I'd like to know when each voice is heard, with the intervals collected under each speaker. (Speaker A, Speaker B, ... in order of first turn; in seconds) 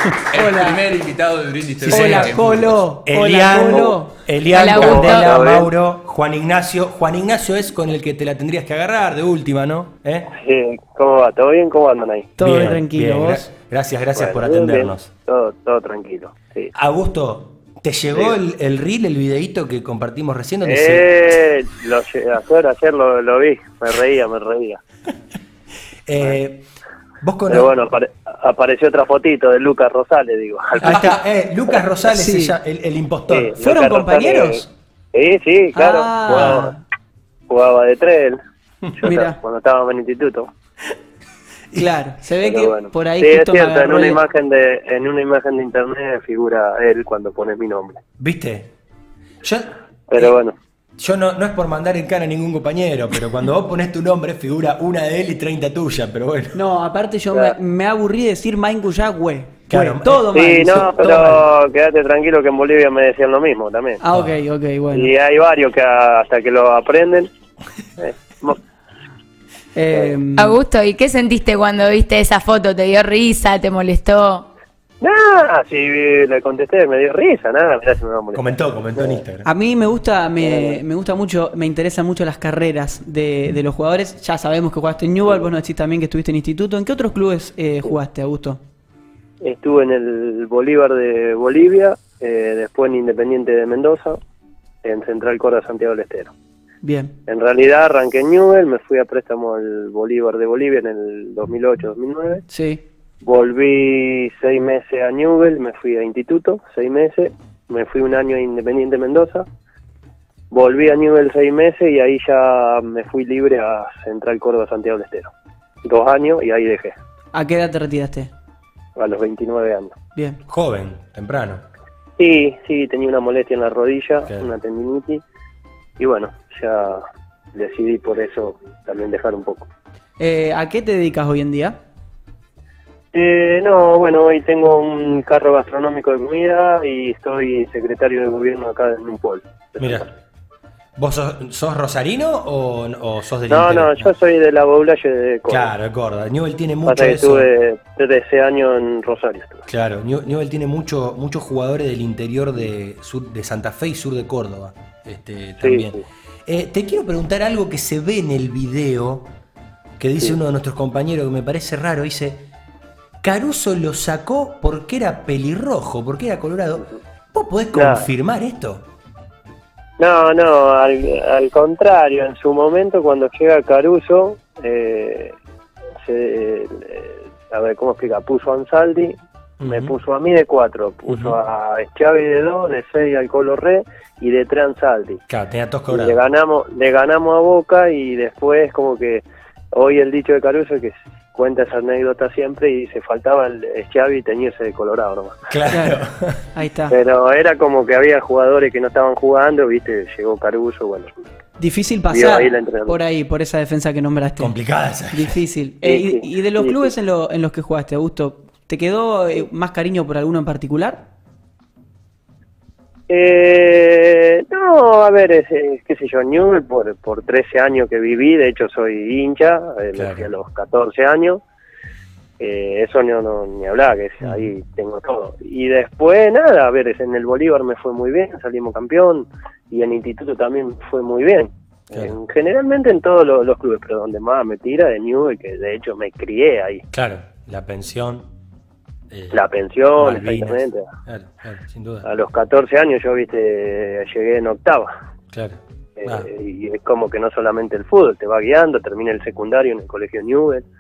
Speaker A: 0.3-2.9
Speaker B: 0.3-0.8, 1.9-4.1, 12.4-13.5, 32.1-32.6, 33.6-34.7, 35.7-36.8, 39.0-39.4, 41.8-44.2, 56.5-61.4, 64.0-65.1, 69.8-70.6, 79.4-88.6, 96.8-97.2, 102.5-102.8, 117.3-118.3, 120.2-120.4, 130.2-131.8, 195.7-196.0, 196.6-197.0, 201.6-204.5, 205.1-211.1
Speaker C: 1.8-2.4, 3.0-10.3, 12.4-15.1, 16.7-21.1, 26.1-26.7, 27.2-27.8, 30.8-33.6, 36.3-36.7, 48.2-48.7, 49.4-50.4, 51.0-56.6, 59.7-61.4, 78.3-79.5, 120.5-121.6, 139.8-140.1, 141.0-144.1, 145.5-147.5, 149.7-159.3, 160.0-162.5, 163.2-168.9, 179.6-179.9, 181.1-181.4, 185.3-186.2, 195.5-196.4, 204.4-205.4, 220.0-220.3, 224.2-224.5, 236.9-238.3, 239.1-239.4, 240.0-242.1, 245.3-246.3
Speaker D: 4.5-5.4, 70.4-74.5
Speaker E: 4.6-5.7, 10.3-12.3, 14.2-16.7, 18.1-18.4, 20.6-24.8, 27.5-31.2, 33.3-36.7, 37.5-38.4, 39.0-40.5, 42.4-48.0, 50.1-50.5, 60.3-64.0, 64.9-67.3, 68.0-68.6, 75.0-79.2, 80.4-80.8, 89.4-94.2, 94.8-96.3, 97.3-102.4, 103.2-109.5, 110.5-115.3, 115.8-117.0, 119.0-120.0, 122.2-125.2, 126.0-127.0, 127.5-129.7, 133.1-140.1, 143.5-145.7, 146.8-149.7, 155.6-156.0, 167.7-168.1, 170.0-175.4, 176.1-185.2, 185.9-195.4, 196.9-201.1, 202.1-203.0, 205.8-206.9, 213.1-221.4, 222.4-236.8, 239.3-240.9, 242.1-244.9, 246.0-250.7